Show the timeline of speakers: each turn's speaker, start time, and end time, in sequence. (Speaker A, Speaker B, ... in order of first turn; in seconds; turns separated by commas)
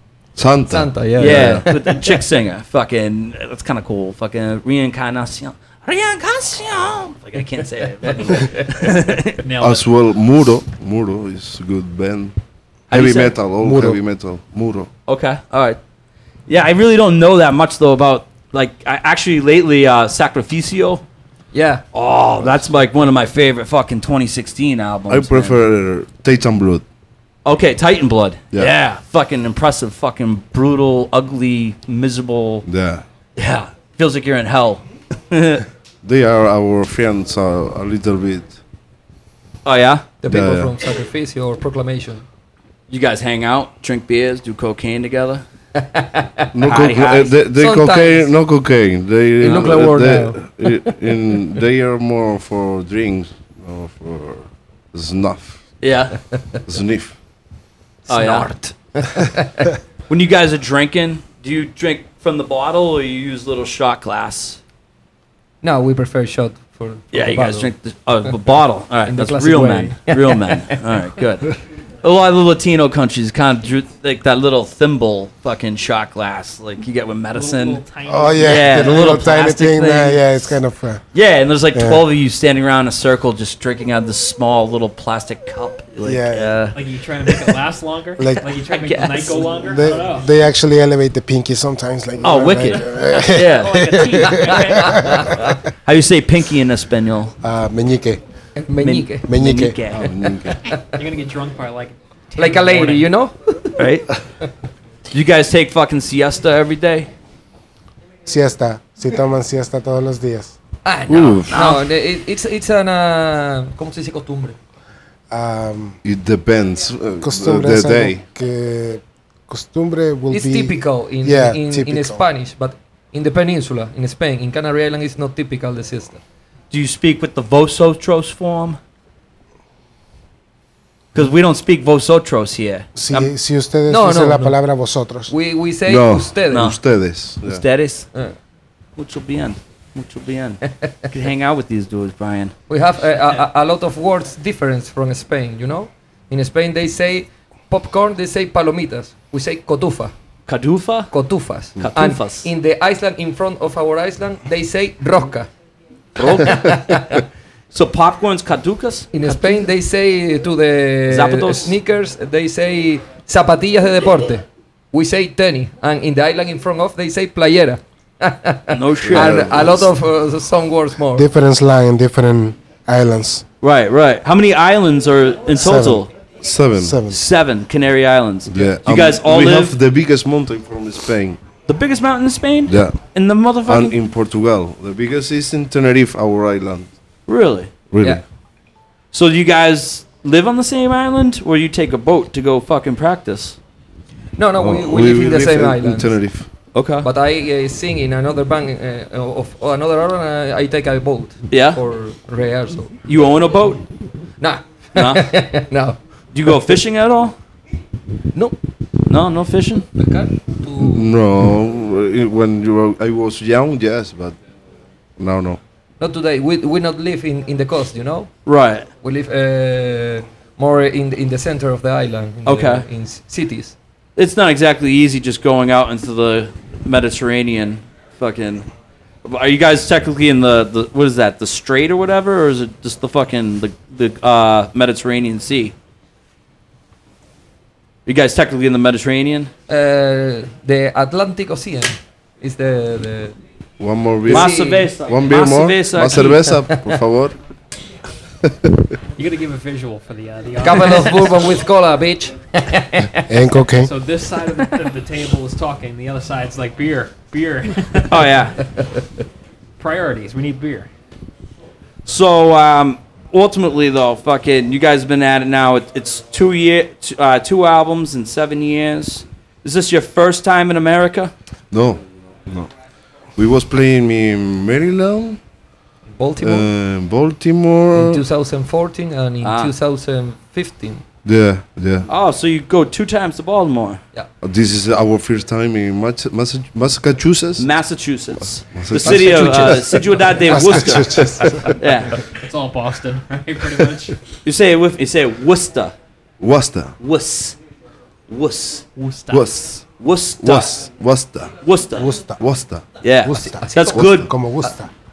Speaker A: 0.3-1.6, Speaker B: 0.7-2.0, Speaker C: 1.2-9.4, Speaker D: 9.4-9.8, Speaker A: 9.6-12.3, Speaker C: 12.9-13.3, Speaker A: 12.9-14.9, Speaker E: 13.6-14.0, Speaker C: 15.1-15.8, Speaker C: 16.5-21.0, Speaker B: 21.5-21.8, Speaker C: 21.9-25.6, Speaker A: 25.1-26.8, Speaker C: 27.4-32.6, Speaker A: 32.6-33.0, Speaker C: 33.4-35.6, Speaker A: 36.0-38.6, Speaker C: 39.6-40.0, Speaker B: 40.2-42.2, Speaker A: 40.3-40.7, Speaker C: 42.9-45.4, Speaker B: 45.8-46.5, Speaker A: 46.5-55.6, Speaker C: 46.6-47.4, Speaker B: 47.5-48.3, Speaker B: 49.4-50.9, Speaker C: 55.8-56.2, Speaker A: 56.7-57.1, Speaker B: 58.0-59.7, Speaker C: 58.1-58.5, Speaker C: 60.1-64.6, Speaker B: 65.6-67.7, Speaker C: 67.1-77.8, Speaker B: 69.0-70.8, Speaker D: 77.3-79.0, Speaker E: 78.1-81.0, Speaker C: 78.4-80.3, Speaker C: 81.1-86.8, Speaker E: 81.7-82.0, Speaker E: 86.0-86.7, Speaker D: 86.7-90.3, Speaker E: 88.2-88.5, Speaker C: 88.6-89.5, Speaker E: 89.7-95.5, Speaker C: 92.2-94.0, Speaker D: 93.2-95.4, Speaker B: 94.9-95.5, Speaker C: 95.8-97.3, Speaker E: 97.4-98.2, Speaker B: 98.5-99.2, Speaker C: 98.8-100.1, Speaker E: 99.3-99.8, Speaker A: 99.9-100.6, Speaker D: 100.8-103.1, Speaker B: 102.4-103.7, Speaker C: 103.8-104.1, Speaker C: 105.1-107.1, Speaker E: 108.2-110.5, Speaker B: 110.8-114.5, Speaker A: 111.1-111.5, Speaker C: 111.5-111.8, Speaker E: 115.3-116.0, Speaker A: 116.0-118.2, Speaker E: 117.2-122.2, Speaker B: 120.3-126.2, Speaker C: 126.7-128.8, Speaker C: 131.1-133.3, Speaker E: 132.9-135.3, Speaker B: 133.9-134.6, Speaker B: 135.3-136.7, Speaker A: 135.8-137.6, Speaker C: 136.5-136.8, Speaker C: 137.4-138.1, Speaker C: 139.0-142.5, Speaker B: 142.7-150.1, Speaker C: 150.5-151.1, Speaker B: 151.1-155.5, Speaker C: 151.8-152.5, Speaker C: 156.2-157.2, Speaker B: 156.4-157.2, Speaker C: 157.7-159.5, Speaker B: 159.1-171.2, Speaker C: 161.1-161.7, Speaker C: 168.7-169.7, Speaker A: 169.0-169.9, Speaker E: 171.1-173.4, Speaker C: 173.6-176.1, Speaker E: 175.6-176.0, Speaker A: 176.4-177.0, Speaker E: 176.8-177.2, Speaker C: 177.1-179.7, Speaker A: 178.5-181.4, Speaker C: 181.7-183.9, Speaker A: 182.7-182.9, Speaker A: 183.6-186.9, Speaker C: 187.3-187.7, Speaker A: 187.9-188.2, Speaker C: 189.1-193.6, Speaker B: 194.4-196.1, Speaker A: 194.6-196.5, Speaker C: 196.7-197.1, Speaker B: 197.0-202.9, Speaker C: 201.5-201.8, Speaker C: 203.1-203.8, Speaker B: 204.4-206.5, Speaker C: 204.9-205.2, Speaker C: 206.3-207.3, Speaker C: 209.1-209.9, Speaker B: 209.9-211.1, Speaker A: 210.8-214.3, Speaker A: 215.2-215.6, Speaker B: 216.0-218.3, Speaker C: 218.4-218.9, Speaker B: 219.0-223.7, Speaker C: 222.4-222.8, Speaker C: 224.2-228.7, Speaker C: 229.2-235.7, Speaker C: 238.1-239.5, Speaker B: 239.7-243.3, Speaker A: 243.8-247.3, Speaker B: 244.3-244.9, Speaker C: 244.3-246.4, Speaker B: 246.5-246.8, Speaker A: 248.4-248.8, Speaker D: 249.2-251.4, Speaker B: 250.6-253.3, Speaker E: 253.3-253.9, Speaker D: 253.8-258.3, Speaker C: 258.1-258.6, Speaker D: 259.8-260.9, Speaker C: 262.1-271.3, Speaker A: 271.7-272.7, Speaker A: 273.4-275.4, Speaker B: 276.1-276.7, Speaker A: 276.4-278.2, Speaker B: 277.9-281.0, Speaker C: 279.4-279.7, Speaker A: 281.2-282.1, Speaker C: 282.1-284.0, Speaker A: 284.4-287.7, Speaker C: 287.6-292.2, Speaker A: 288.7-289.8, Speaker B: 289.0-290.2, Speaker E: 290.5-291.8, Speaker D: 292.4-294.2, Speaker C: 294.4-295.9, Speaker A: 296.4-296.9, Speaker C: 297.0-297.6, Speaker C: 298.3-298.9, Speaker D: 298.9-299.5, Speaker A: 299.3-299.8, Speaker C: 300.0-300.8, Speaker A: 300.4-301.6, Speaker C: 301.6-302.1, Speaker E: 301.9-302.4, Speaker A: 302.4-302.8, Speaker C: 303.0-304.3, Speaker E: 303.2-304.9, Speaker B: 303.6-304.0